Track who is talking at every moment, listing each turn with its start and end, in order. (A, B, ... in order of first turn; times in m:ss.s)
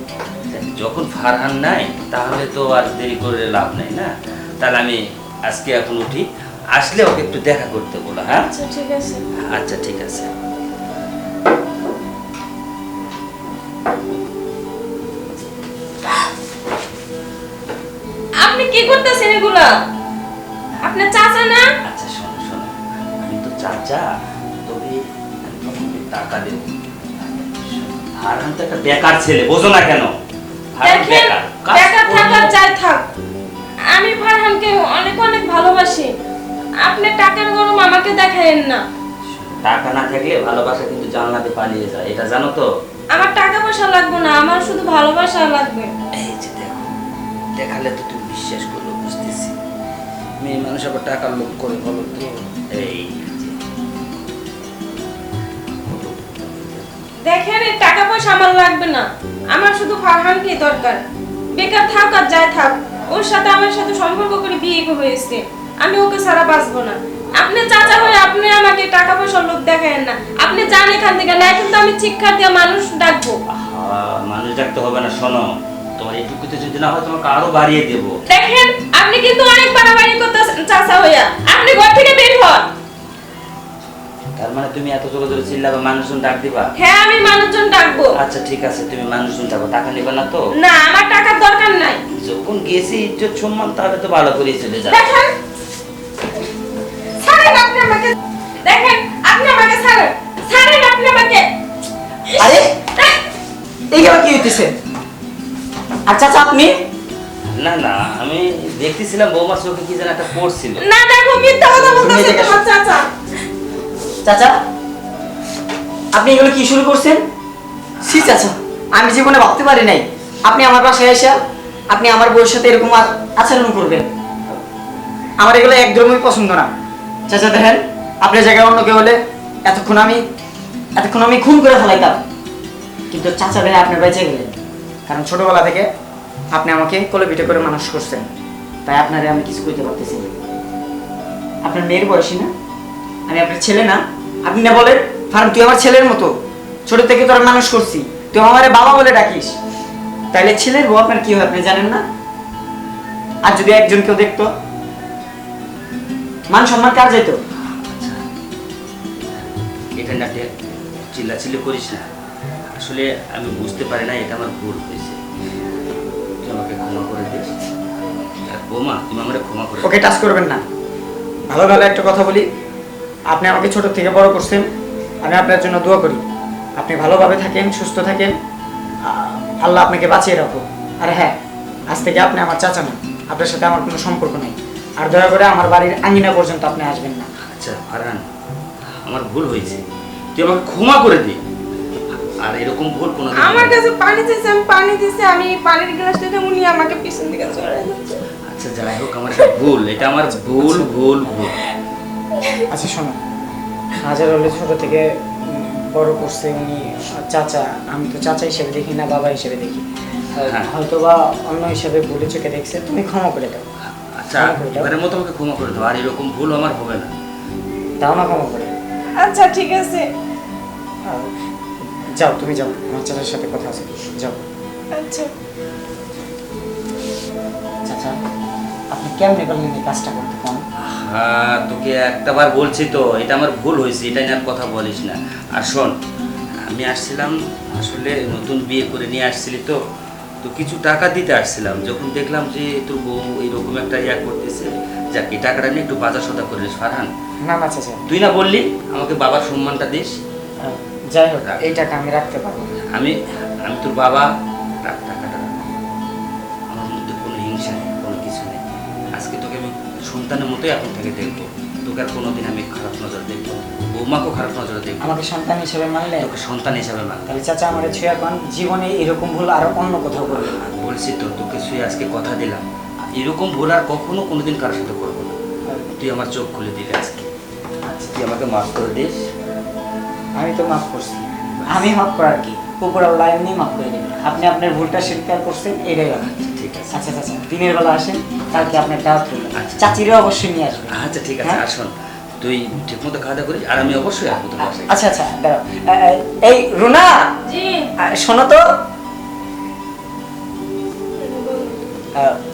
0:00.5-0:08.5 A
0:08.3-0:09.2 B
0:09.5-0:10.3 A
0:18.4-0:19.7 B
0:20.8-0:21.7 B
0:21.8-0:24.1 A
0:24.7-0:30.1 A
0:30.8-0:32.5 A
0:30.8-0:33.1 B
0:33.9-0:36.1 B
0:36.8-0:38.8 B
0:39.3-0:42.7 A
0:43.2-0:45.9 B
0:46.2-0:46.9 A
0:47.6-0:49.5 A
0:50.4-0:53.6 A
0:55.9-0:57.1 A
0:57.2-1:01.0 B
1:01.6-1:13.4 B
1:07.8-1:08.2 A
1:13.5-1:18.1 A
1:18.3-1:22.7 B
1:24.4-1:26.7 A
1:26.8-1:28.2 B
1:28.2-1:30.4 A
1:30.5-1:32.0 B
1:32.2-1:35.0 A
1:34.8-1:35.4 B
1:37.2-1:38.1 B
1:38.6-1:41.5 B
1:42.2-1:43.2 B
1:42.4-1:42.7 C
1:43.9-1:44.7 C
1:46.1-1:46.7 C
1:47.5-1:50.8 A
1:50.8-1:53.1 B
1:51.8-1:52.6 C
1:54.2-1:54.6 C
1:56.1-1:57.2 C
1:58.0-1:58.4 A
1:58.0-2:01.4 C
2:01.9-2:04.1 C
2:05.4-2:06.7 C
2:07.3-2:10.2 C
2:11.0-2:12.2 C
2:13.1-2:14.5 C
2:15.1-2:15.9 C
2:16.5-2:18.3 C
2:18.9-2:20.3 C
2:21.6-2:22.5 C
2:23.3-2:26.3 C
2:26.9-2:29.6 C
2:30.3-2:32.0 C
2:33.4-2:34.5 C
2:36.5-2:37.4 C
2:37.8-2:38.2 A
2:39.3-2:40.5 A
2:41.1-2:42.1 A
2:42.7-2:45.2 A
2:46.4-2:47.6 A
2:48.5-2:50.0 A
2:49.8-2:50.6 C
2:51.5-2:52.5 C
2:53.3-2:54.7 C
2:55.2-2:56.2 C
2:56.8-2:58.4 C
2:59.1-3:01.4 C
3:01.9-3:07.3 C
3:07.5-3:08.2 A
3:09.0-3:09.8 A
3:10.4-3:11.4 A
3:12.4-3:13.8 A
3:13.3-3:18.2 B
3:18.5-3:21.5 A
3:20.6-3:20.9 C
3:22.4-3:22.6 B
3:22.7-3:23.2 C
3:24.0-3:33.6 C
3:30.4-3:30.7 A
3:34.0-3:37.1 A
3:34.4-3:34.9 C
3:38.0-3:38.7 C
3:39.2-3:40.1 B
3:42.2-3:44.4 C
3:45.0-3:45.3 B
3:47.9-3:48.2 C
3:48.9-3:50.6 C
3:50.9-3:55.9 A
3:56.6-3:59.8 A
4:00.4-4:07.1 A
4:07.4-4:08.0 C
4:08.1-4:10.1 A
4:10.6-4:12.7 C
4:11.4-4:11.8 A
4:12.9-4:14.3 A
4:14.8-4:15.8 A
4:16.7-4:18.6 A
4:19.2-4:25.2 A
4:25.0-4:26.3 C
4:26.2-4:27.4 A
4:27.3-4:30.6 C
4:30.3-4:32.6 A
4:33.1-4:35.4 A
4:35.6-4:36.0 C
4:36.0-4:37.3 A
4:37.9-4:38.2 C
4:38.1-4:39.3 A
4:40.4-4:46.3 C
4:41.5-4:41.9 A
4:46.1-4:47.0 A
4:46.9-4:51.6 C
4:48.5-4:48.9 A
4:49.6-4:49.9 A
4:50.9-4:55.1 A
4:54.9-4:57.3 C
4:57.4-4:57.9 B
4:58.0-4:58.6 C
5:01.2-5:01.8 B